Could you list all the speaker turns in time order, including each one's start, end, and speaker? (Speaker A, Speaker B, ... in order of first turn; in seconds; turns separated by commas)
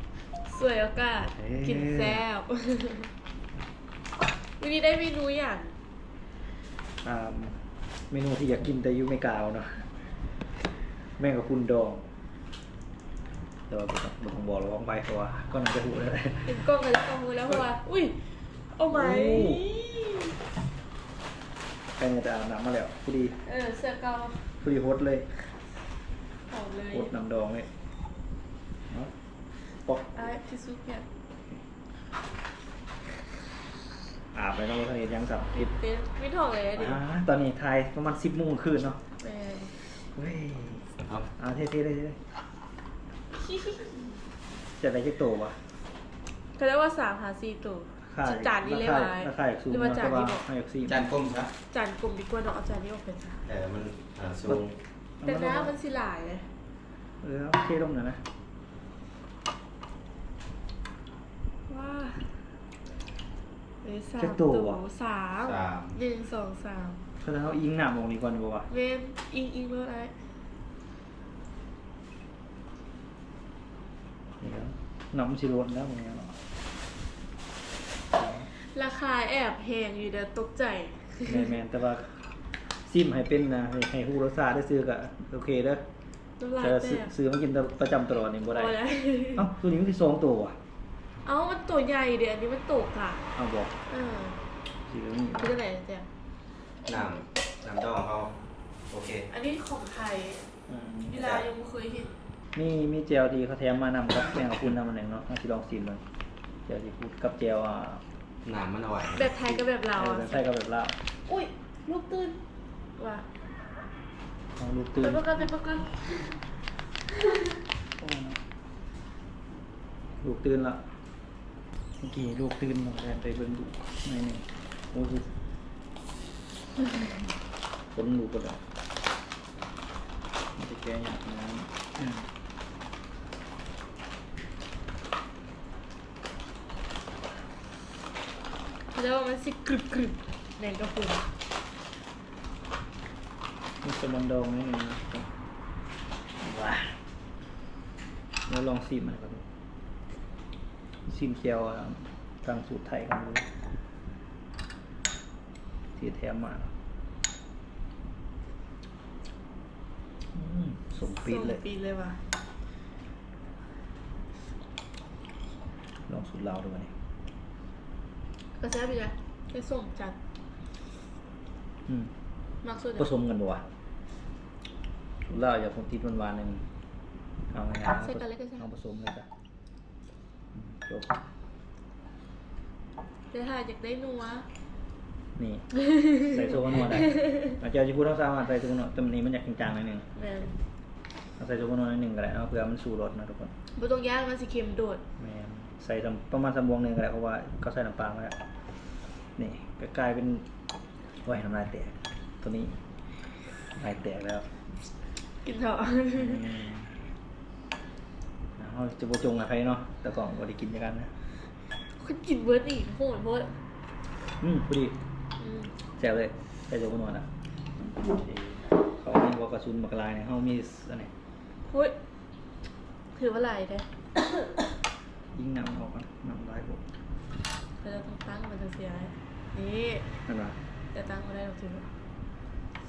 Speaker A: 0.2-3.1, Speaker B: 1.4-2.2, Speaker A: 4.3-5.7, Speaker B: 7.0-10.0, Speaker B: 11.2-12.1, Speaker B: 13.7-16.6, Speaker A: 16.4-20.4, Speaker B: 18.9-19.7, Speaker B: 21.9-23.4, Speaker A: 23.4-24.5, Speaker B: 24.5-25.3, Speaker A: 26.4-27.1, Speaker B: 26.9-27.7, Speaker B: 29.8-30.2, Speaker A: 30.1-31.1, Speaker B: 34.3-35.7, Speaker A: 35.5-37.0, Speaker B: 36.7-39.0, Speaker A: 39.2-39.7, Speaker B: 39.7-42.2, Speaker A: 43.5-44.0, Speaker B: 44.8-45.6, Speaker A: 46.5-50.5, Speaker B: 48.0-51.1, Speaker C: 50.9-51.5, Speaker A: 51.7-53.5, Speaker C: 53.4-54.8, Speaker B: 55.2-55.8, Speaker A: 55.2-56.5, Speaker B: 57.2-58.2, Speaker A: 61.7-62.4, Speaker A: 63.8-67.0, Speaker B: 64.2-64.8, Speaker C: 65.4-66.0, Speaker B: 67.2-68.7, Speaker A: 68.7-70.2, Speaker B: 74.4-76.4, Speaker B: 78.1-78.5, Speaker A: 78.5-81.5, Speaker B: 81.2-85.8, Speaker A: 86.4-87.1, Speaker B: 86.6-88.8, Speaker A: 88.5-89.5, Speaker B: 89.3-90.6, Speaker A: 91.2-93.2, Speaker B: 93.3-93.8, Speaker A: 93.9-94.4, Speaker B: 94.8-95.6, Speaker A: 95.4-96.0, Speaker C: 96.8-99.3, Speaker A: 99.3-100.5, Speaker B: 100.7-101.2, Speaker A: 101.1-102.1, Speaker C: 101.2-101.4, Speaker B: 102.5-106.0, Speaker B: 106.7-108.0, Speaker C: 108.4-109.5, Speaker A: 109.1-110.4, Speaker B: 110.0-111.0, Speaker A: 111.2-112.4, Speaker A: 113.0-113.3, Speaker B: 114.5-115.4, Speaker A: 115.0-116.5, Speaker A: 117.1-117.5, Speaker B: 118.0-118.4, Speaker B: 120.2-120.9, Speaker B: 122.0-125.3, Speaker B: 127.9-128.6, Speaker B: 130.6-132.3, Speaker A: 138.9-141.3, Speaker B: 143.8-145.3, Speaker B: 146.4-147.0, Speaker B: 148.4-149.4, Speaker B: 151.0-153.5, Speaker B: 155.9-156.7, Speaker B: 160.3-161.6, Speaker A: 161.2-162.2, Speaker B: 166.1-166.9, Speaker A: 168.6-170.2, Speaker B: 171.9-172.1, Speaker A: 172.6-173.1, Speaker B: 173.0-173.7, Speaker B: 175.2-176.6, Speaker B: 177.5-179.3, Speaker A: 177.8-178.6, Speaker B: 180.5-181.2, Speaker A: 183.3-184.5, Speaker B: 185.3-190.1, Speaker A: 190.2-190.6, Speaker B: 191.4-193.5, Speaker A: 193.7-195.0, Speaker B: 195.2-198.3, Speaker B: 199.4-200.4, Speaker B: 201.2-202.8, Speaker B: 203.7-204.5, Speaker A: 205.4-206.5, Speaker B: 206.1-207.1, Speaker B: 208.6-211.1, Speaker A: 211.9-213.6, Speaker B: 214.2-215.0, Speaker A: 215.4-215.7, Speaker B: 215.9-217.3, Speaker B: 218.0-221.1, Speaker A: 221.6-222.0, Speaker A: 223.1-224.4, Speaker B: 225.3-226.8, Speaker A: 227.8-230.1, Speaker B: 230.3-230.6, Speaker A: 230.9-231.9